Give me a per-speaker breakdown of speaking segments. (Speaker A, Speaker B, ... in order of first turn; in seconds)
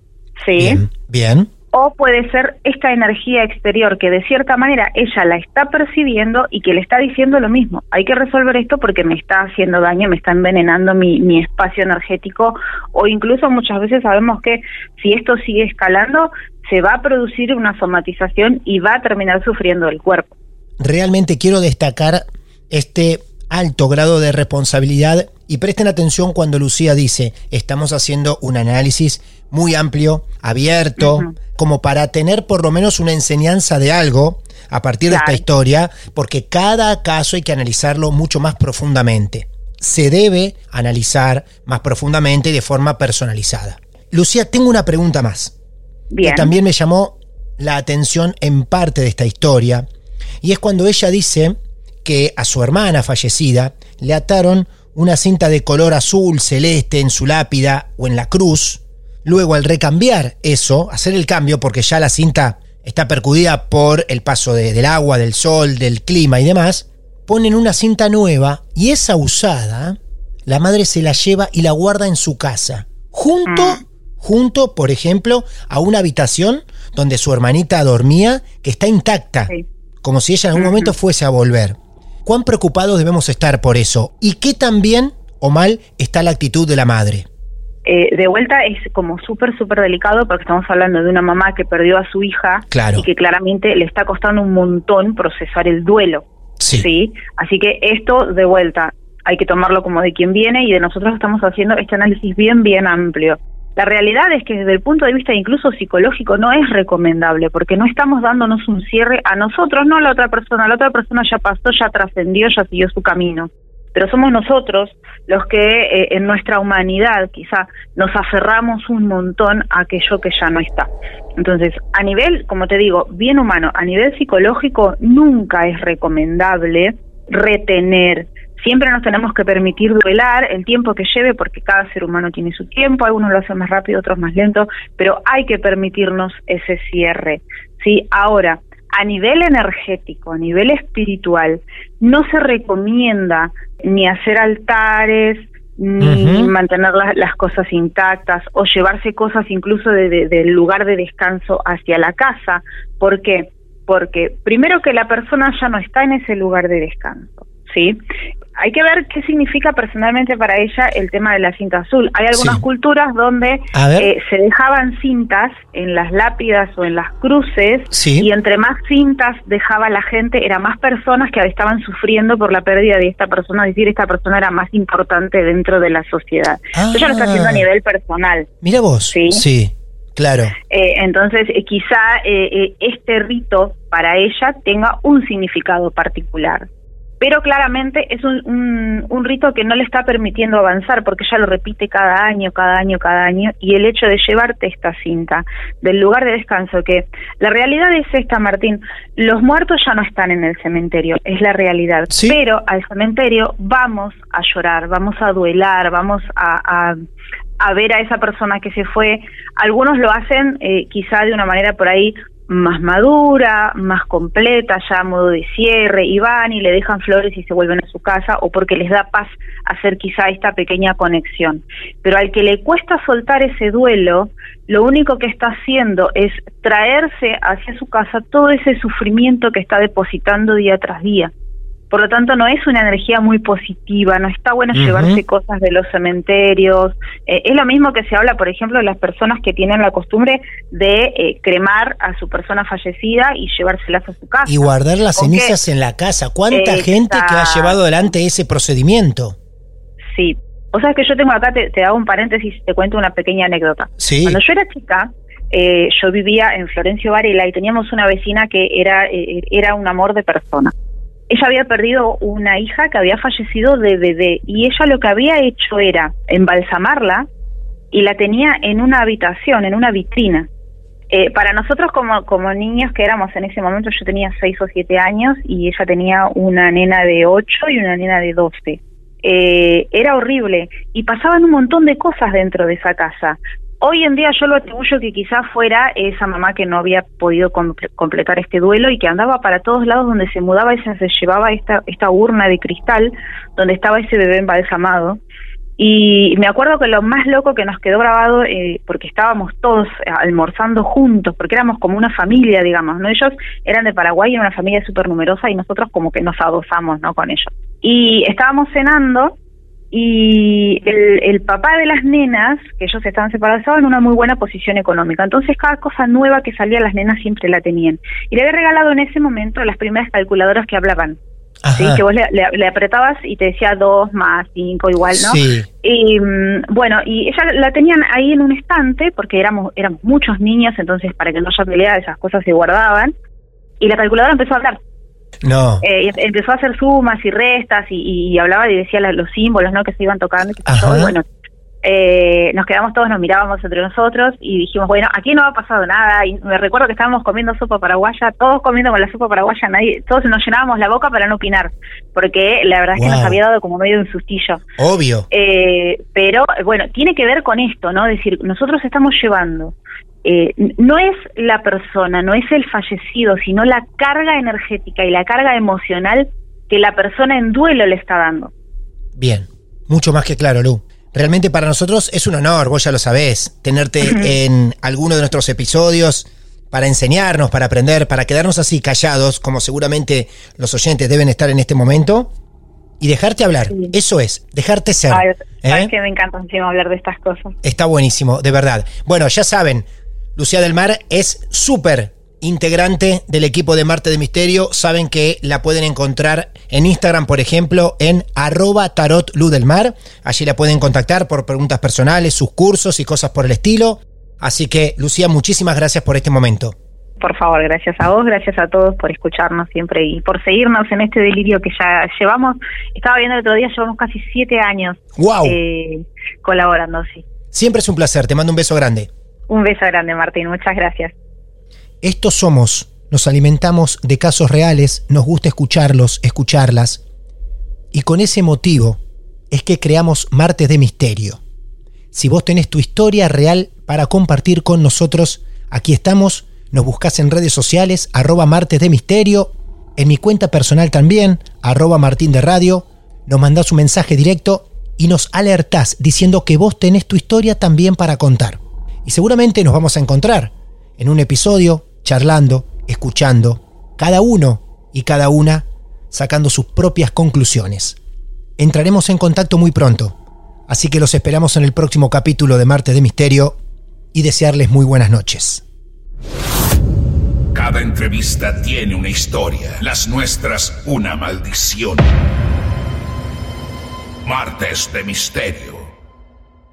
Speaker A: 0.4-0.8, 1.7-20.3, 31.0-31.3, 35.1-35.4, 46.1-46.5, 73.5-73.8, 80.6-80.9, 87.9-158.0, 158.6-178.5, 179.1-179.4, 180.7-186.7, 187.2-207.0, 207.6-231.3, 231.9-244.7, 245.2-245.6, 246.5-247.8, 250.1-260.7, 261.3-267.3, 267.9-270.5, 271.1-295.2, 295.8-309.4, 309.9-321.2, 321.7-333.1, 333.8-334.8, 335.8-341.2, 341.8-354.6, 355.3-368.5, 374.0-374.3, 385.1-387.6, 407.2-417.2, 419.5-421.1
Speaker B: 0.6-1.5, 20.8-45.5, 46.2-49.9, 50.4-79.5, 80.0-87.3, 92.7-93.1, 96.6-96.9, 146.0-146.5, 162.3-162.6, 163.7-164.1, 167.9-168.3, 176.8-177.7, 178.6-180.6, 202.1-202.4, 234.7-235.2, 244.5-249.4, 254.0-254.4, 321.6-322.0, 325.1-325.7, 335.4-335.9, 340.7-341.1, 352.9-353.4, 354.8-355.3, 369.2-382.3, 383.0-385.9, 387.6-406.8, 415.2-415.6, 417.5-419.1, 422.0-427.0, 427.9-429.0, 429.5-431.4, 432.1-458.0, 458.6-460.1, 460.7-463.6, 464.1-465.6
Speaker C: 467.5-472.1, 474.2-475.9